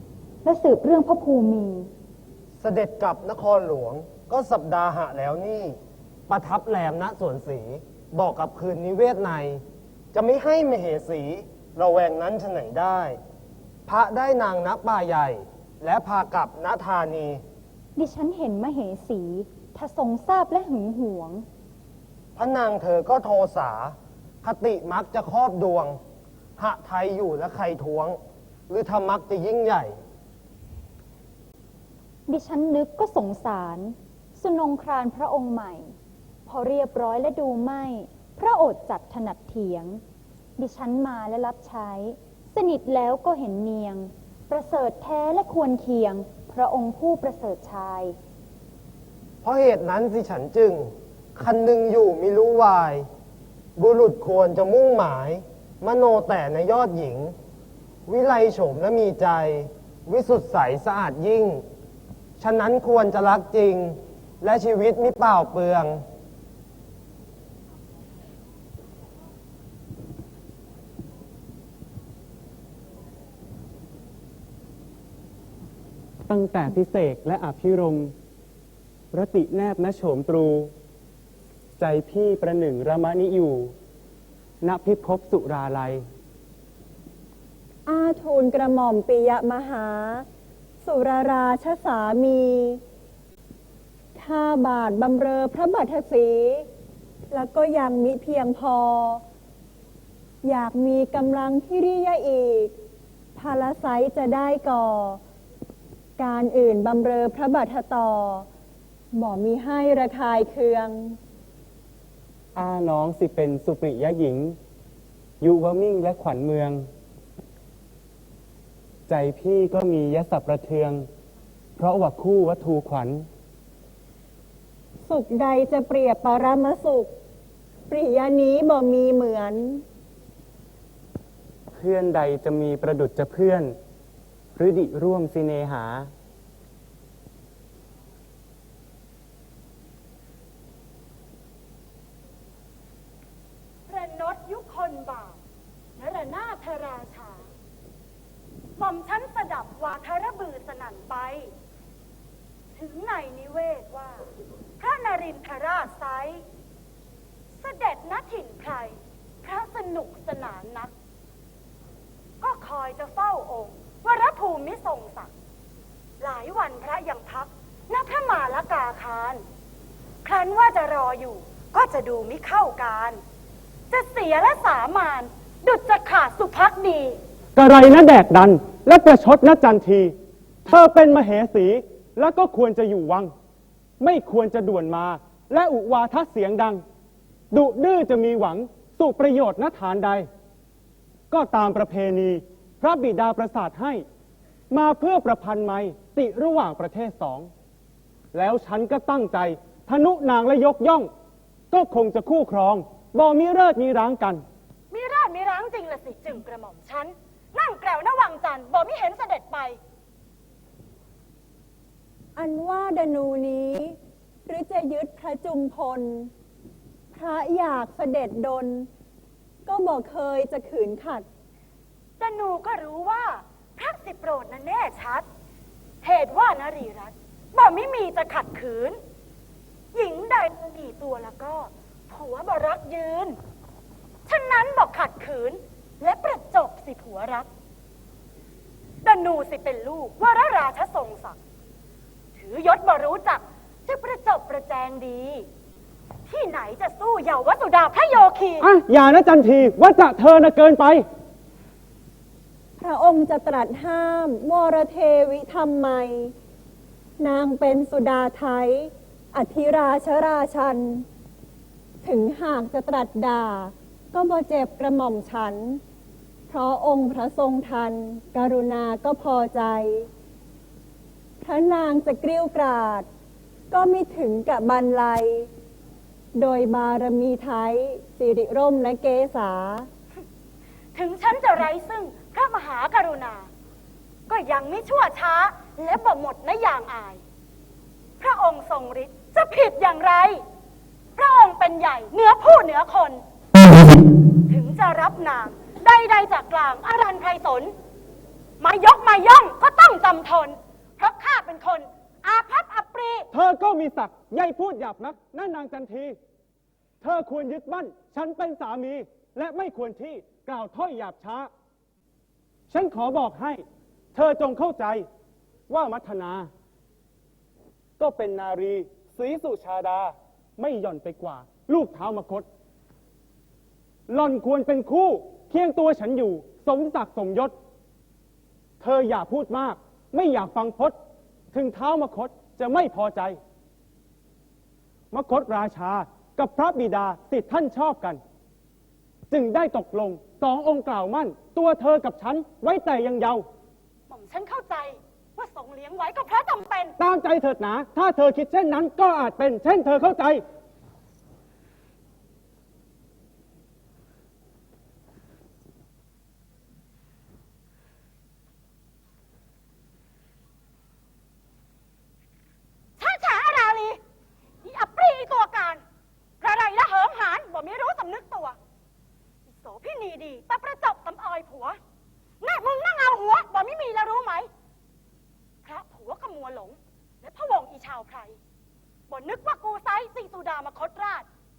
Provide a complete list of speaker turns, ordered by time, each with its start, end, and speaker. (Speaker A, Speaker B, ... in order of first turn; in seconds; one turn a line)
Speaker A: 0.4-1.9
Speaker B: 2.6-5.8
Speaker B: 6.3-13.2
Speaker B: 13.8-17.4
Speaker A: 17.9-21.4
Speaker B: 22.4-26.0
Speaker B: 26.6-28.2
Speaker B: 28.7-29.9
Speaker A: 32.3-35.9
Speaker A: 36.5-40.0
Speaker A: 40.6-48.1
Speaker B: 49.4-53.1
Speaker B: 53.8-57.3
Speaker B: 58.1-61.6
Speaker B: 62.4-66.0
Speaker C: 76.3-78.1
Speaker C: 79.1-80.7
Speaker C: 81.8-83.7
Speaker C: 84.6-86.0
Speaker D: 87.8-90.2
Speaker D: 90.8-92.8
Speaker D: 94.1-96.7
Speaker D: 97.3-99.2
Speaker D: 100.4-102.7
Speaker D: 103.3-105.2
Speaker D: 106.2-108.5
Speaker D: 109.1-111.2
Speaker C: 112.5-114.5
Speaker C: 115.4-116.9
Speaker C: 119.1-121.0
Speaker C: 121.8-123.2
Speaker D: 125.1-127.1
Speaker D: 127.9-129.8
Speaker C: 131.7-133.7
Speaker C: 134.6-136.1
Speaker E: 143.9-145.4
Speaker E: 146.0-147.5
Speaker E: 148.8-151.5
Speaker E: 152.7-156.4
Speaker E: 157.6-160.9
Speaker E: 162.4-165.3
Speaker E: 166.2-169.4
Speaker E: 170.2-173.2
Speaker E: 173.9-177.2
Speaker C: 177.6-180.1
Speaker C: 180.7-183.3
Speaker C: 184.0-186.8
Speaker C: 187.5-190.3
Speaker C: 191.3-194.0
Speaker C: 194.7-197.5
Speaker C: 198.3-201.1
Speaker C: 201.7-204.4
Speaker E: 204.9-209.8
Speaker D: 212.3-216.3
Speaker D: 217.1-218.9
Speaker D: 219.7-221.2
Speaker E: 222.2-225.2
Speaker E: 226.0-229.0
Speaker E: 229.9-233.4
Speaker E: 234.3-237.5
Speaker E: 239.0-241.3
Speaker E: 242.3-245.5
Speaker E: 246.3-248.7
Speaker C: 248.6-251.0
Speaker D: 252.8-256.3
Speaker D: 257.2-261.0
Speaker D: 262.0-265.8
Speaker D: 266.5-270.1
Speaker D: 271.4-273.1
Speaker D: 273.7-275.5
Speaker D: 276.3-279.9
Speaker E: 280.9-283.5
Speaker E: 284.3-287.2
Speaker E: 288.2-290.4
Speaker E: 291.2-293.2
Speaker E: 294.5-297.7
Speaker E: 298.6-303.3
Speaker C: 303.3-306.1
Speaker C: 307.0-311.5
Speaker C: 312.7-313.6
Speaker C: 314.1-315.0
Speaker C: 315.7-316.5
Speaker C: 318.0-322.4
Speaker C: 324.1-327.5
Speaker C: 328.8-330.9
Speaker C: 331.5-333.4
Speaker C: 335.1-338.2
Speaker C: 339.3-343.4
Speaker E: 344.1-346.9
Speaker C: 347.0-350.4
Speaker E: 363.0-364.0
Speaker E: 364.6-365.8
Speaker E: 366.4-368.6
Speaker E: 369.5-371.8
Speaker E: 372.4-374.5
Speaker E: 375.6-378.4
Speaker E: 379.1-381.3